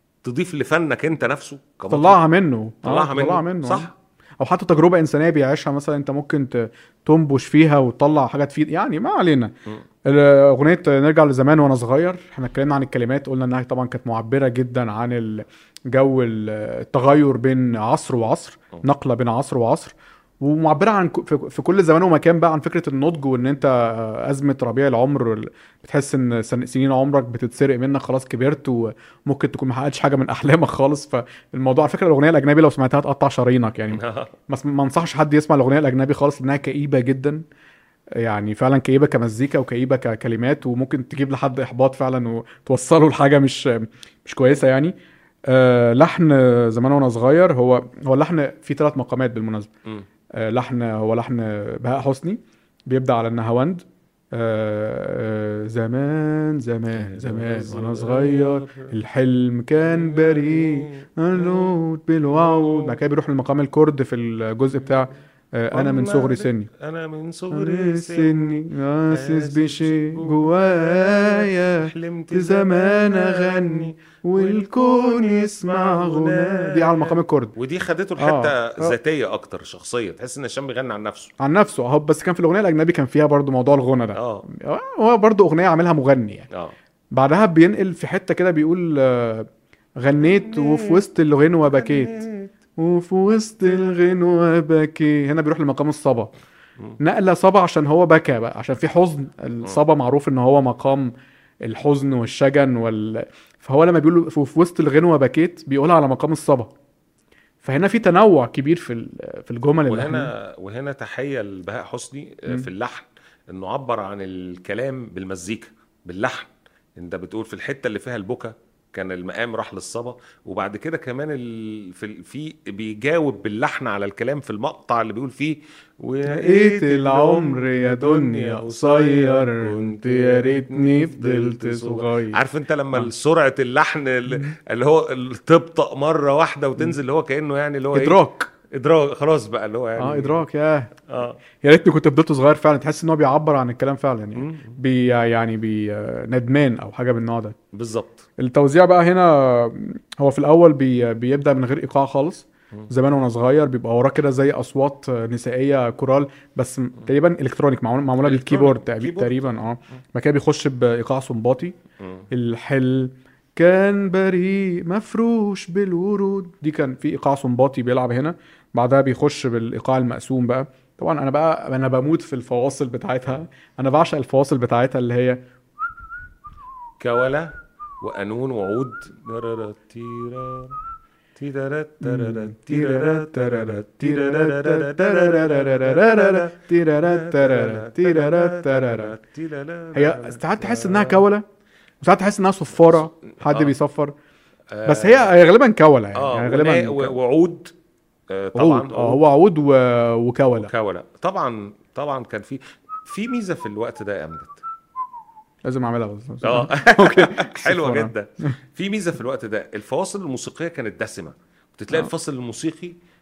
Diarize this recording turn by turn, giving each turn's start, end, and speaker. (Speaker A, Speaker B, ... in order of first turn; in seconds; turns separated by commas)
Speaker A: 0.2-2.2, Speaker B: 1.9-9.5, Speaker A: 2.8-3.9, Speaker B: 10.1-37.4, Speaker A: 33.9-34.3, Speaker B: 38.2-44.9, Speaker B: 45.5-49.7, Speaker B: 50.4-66.7, Speaker A: 56.9-58.9, Speaker A: 59.8-61.7, Speaker A: 62.3-63.0, Speaker A: 65.7-81.3, Speaker B: 67.5-77.5, Speaker B: 78.2-78.9, Speaker B: 81.4-86.5, Speaker A: 84.1-84.5, Speaker A: 86.5-86.7, Speaker B: 87.1-89.5, Speaker B: 90.0-92.2, Speaker A: 90.2-91.0, Speaker A: 91.6-92.5, Speaker B: 92.8-96.3, Speaker B: 97.0-101.1, Speaker B: 101.6-106.7, Speaker B: 107.6-110.3, Speaker A: 109.9-140.4, Speaker B: 126.3-132.4, Speaker B: 134.3-134.6, Speaker B: 137.9-138.5, Speaker B: 140.0-140.9, Speaker A: 141.1-141.4, Speaker B: 141.6-147.6, Speaker A: 144.3-144.8, Speaker A: 147.7-148.2, Speaker B: 148.4-161.8, Speaker A: 158.2-159.7, Speaker A: 162.0-162.3, Speaker B: 162.3-175.4, Speaker A: 177.0-180.8, Speaker A: 181.3-191.2, Speaker B: 182.0-189.1, Speaker B: 189.9-191.4, Speaker B: 192.0-194.1, Speaker A: 192.8-193.8, Speaker A: 194.7-195.3, Speaker B: 194.8-197.2, Speaker A: 196.1-197.7, Speaker A: 198.3-199.2, Speaker B: 198.5-200.7, Speaker A: 200.6-204.6, Speaker B: 205.6-208.1, Speaker A: 206.4-213.0